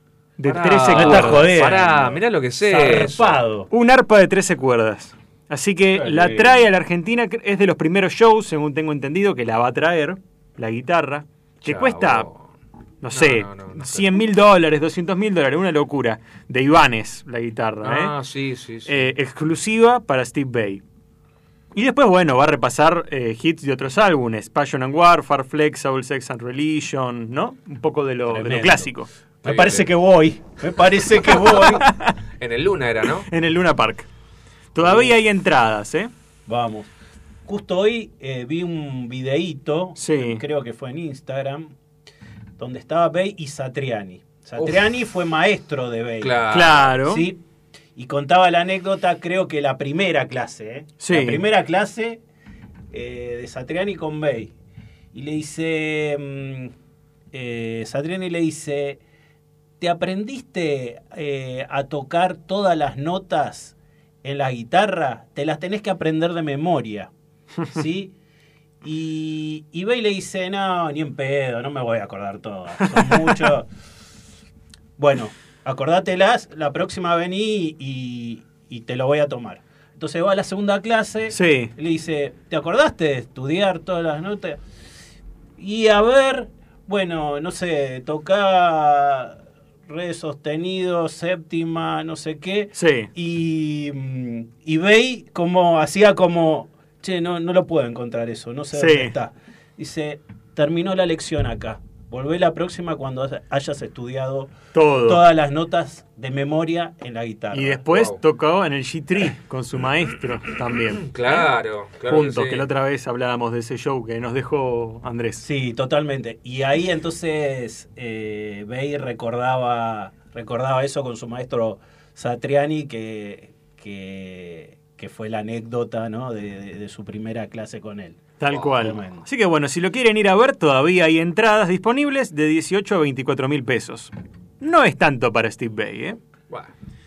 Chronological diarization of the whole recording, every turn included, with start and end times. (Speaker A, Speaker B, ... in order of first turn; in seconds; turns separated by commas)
Speaker A: 0.4-1.5, Speaker B: 0.4-3.4, Speaker C: 0.9-3.7, Speaker A: 3.7-12.3, Speaker C: 5.9-6.6, Speaker B: 11.6-12.4, Speaker A: 13.0-18.1, Speaker B: 13.1-14.1, Speaker B: 17.8-19.1, Speaker A: 18.9-20.8, Speaker A: 21.7-29.1, Speaker C: 28.3-28.9, Speaker C: 29.4-31.8, Speaker B: 29.4-29.9, Speaker A: 31.3-32.1, Speaker B: 32.4-33.3, Speaker A: 33.3-34.0, Speaker A: 34.7-36.1, Speaker C: 34.8-35.1, Speaker C: 36.5-36.9, Speaker C: 37.5-41.7, Speaker A: 40.0-40.4, Speaker C: 42.6-46.4, Speaker B: 46.2-46.9, Speaker A: 46.5-47.2, Speaker C: 47.0-47.4, Speaker C: 48.0-52.2, Speaker A: 51.0-51.4, Speaker C: 52.9-54.5, Speaker C: 55.1-56.7, Speaker C: 57.3-59.0, Speaker C: 59.8-67.1, Speaker C: 67.7-68.1, Speaker C: 68.8-73.7, Speaker C: 75.0-84.6, Speaker A: 81.3-81.7, Speaker C: 85.6-108.0, Speaker A: 92.8-93.1, Speaker A: 98.7-99.1, Speaker A: 104.7-105.2, Speaker A: 107.5-111.1, Speaker B: 111.0-112.7, Speaker A: 112.1-115.4, Speaker C: 115.4-128.2, Speaker A: 128.4-136.2, Speaker C: 128.8-129.2